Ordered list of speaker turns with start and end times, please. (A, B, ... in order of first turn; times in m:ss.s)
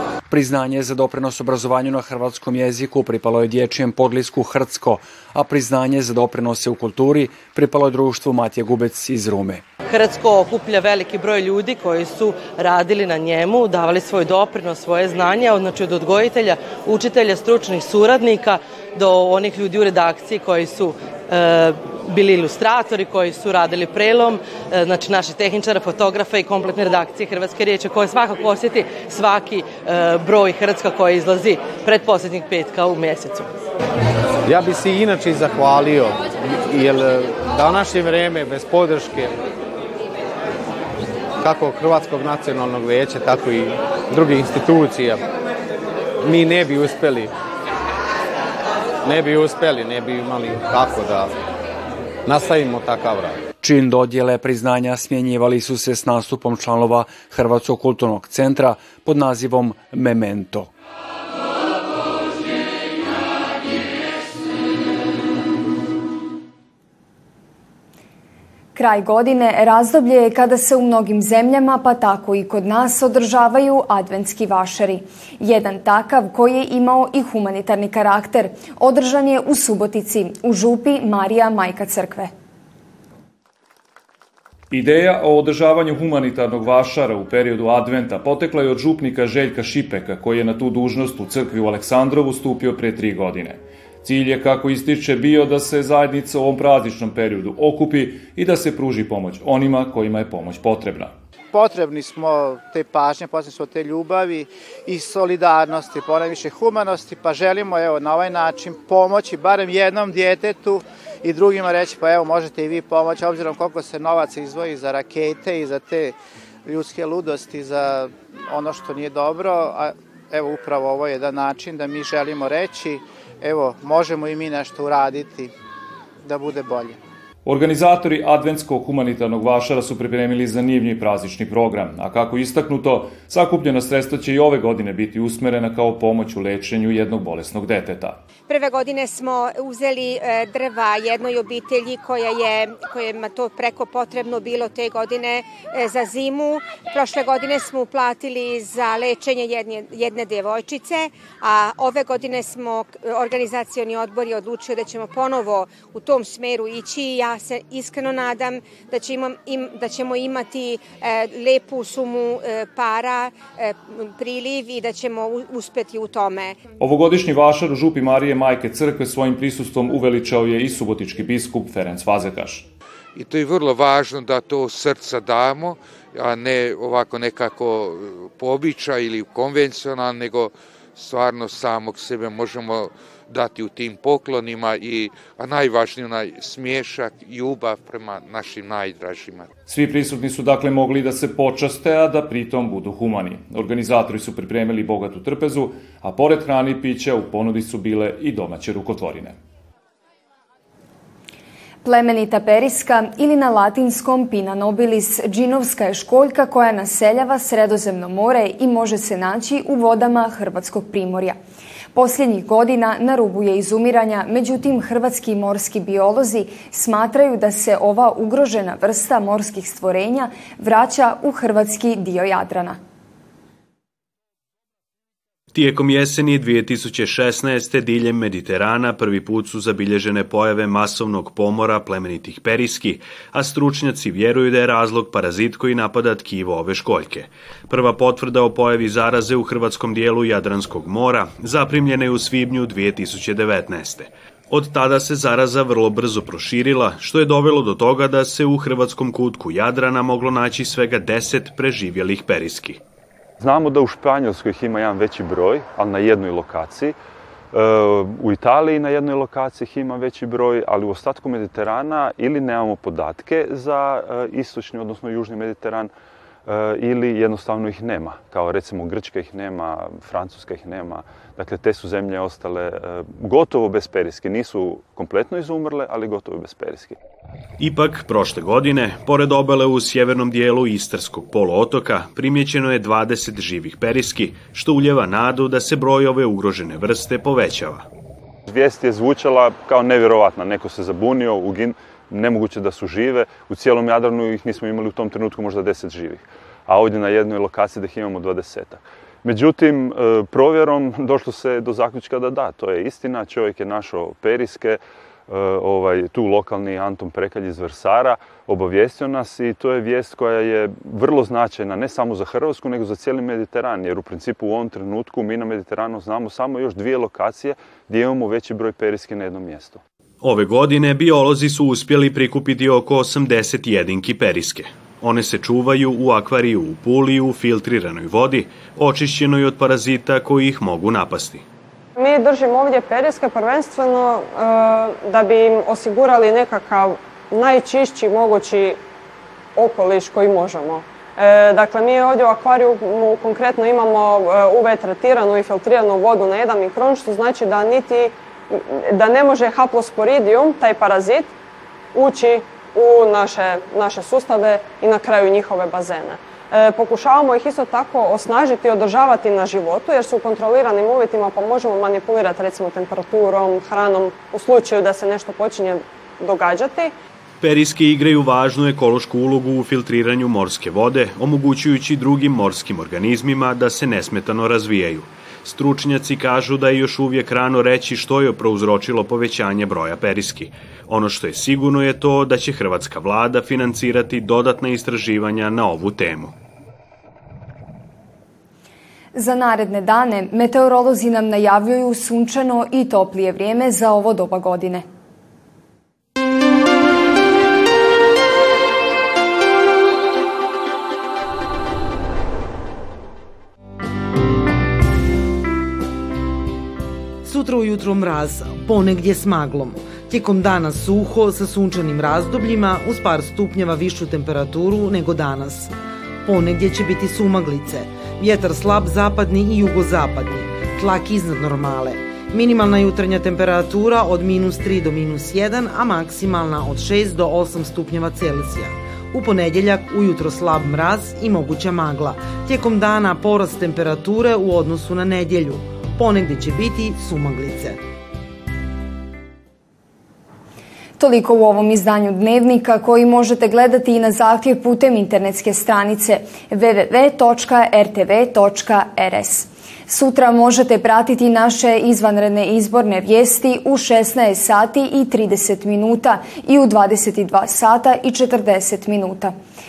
0:00.3-0:09.6 A
0:09.9-0:33.5 B
0:34.4-0:39.4 C
0:41.4-0:45.2 C
0:46.2-0:47.3 C
0:49.0-0:51.3 C
0:52.3-0:53.4 C
0:53.6-1:00.7 A
1:08.8-1:22.3 D
1:24.7-1:41.1 E
1:41.5-2:05.5 F
2:06.2-2:07.0 F
2:07.4-2:18.2 E
2:18.5-2:46.6 G
2:46.8-2:52.7 E
2:53.2-3:09.5 H
3:09.7-3:19.4 E
3:21.8-3:31.4 D
3:31.9-3:42.8 D
3:45.5-4:12.8 I
4:13.4-4:17.0 J
4:17.5-4:25.9 J
4:26.5-4:37.0 J
4:37.6-4:47.8 I
4:48.5-5:19.8 J
5:20.2-5:31.4 I
5:32.0-5:38.8 K
5:39.6-5:48.1 K
5:48.9-5:51.3 K
5:52.0-6:06.9 K
6:07.4-6:26.3 I
6:29.1-6:34.8 D
6:47.2-6:55.7 L
6:56.2-7:17.8 L
7:21.0-7:39.3 D